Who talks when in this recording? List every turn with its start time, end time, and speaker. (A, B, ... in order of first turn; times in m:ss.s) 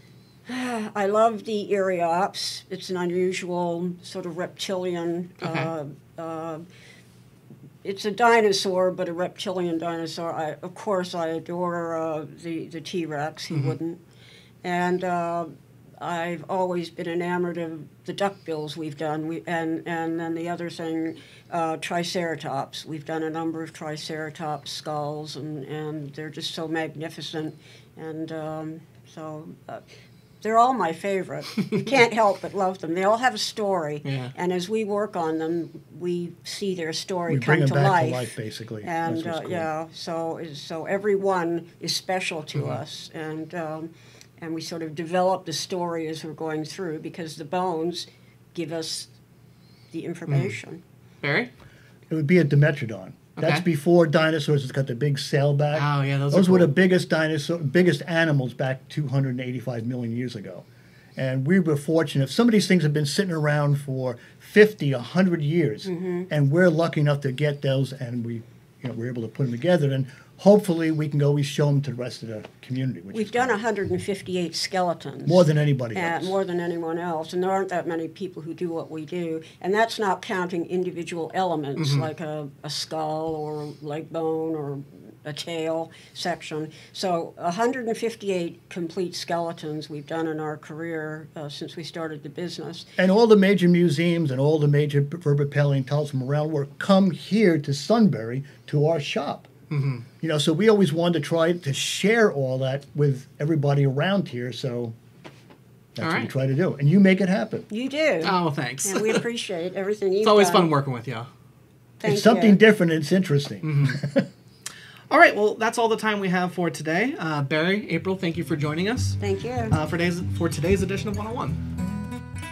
0:00.5-0:06.6 A
0:05.4-0:05.7 B
0:07.8-0:14.0 A
0:13.5-0:13.8 B
0:14.6-0:29.8 A
0:30.4-0:38.3 A
0:34.0-0:34.3 B
0:37.3-0:39.7 C
0:38.8-0:49.1 A
0:42.5-0:42.8 B
0:49.9-0:50.8 A
0:50.3-0:50.6 B
0:51.2-0:51.5 B
0:52.1-1:00.6 C
0:53.4-0:53.6 B
0:55.7-0:56.7 B
1:01.2-1:13.6 C
1:05.8-1:06.3 A
1:13.1-1:32.9 A
1:15.2-1:16.3 C
1:21.8-1:22.1 B
1:33.0-1:39.5 C
1:39.7-1:40.0 B
1:40.2-1:45.0 C
1:46.0-1:47.7 C
1:46.0-1:46.3 B
1:47.7-1:50.7 A
1:48.2-1:49.2 B
1:50.2-1:51.3 B
1:52.0-1:52.6 A
1:52.0-1:54.3 C
1:53.6-1:54.0 B
1:55.1-1:59.2 B
1:59.2-1:59.7 A
1:59.7-2:01.6 B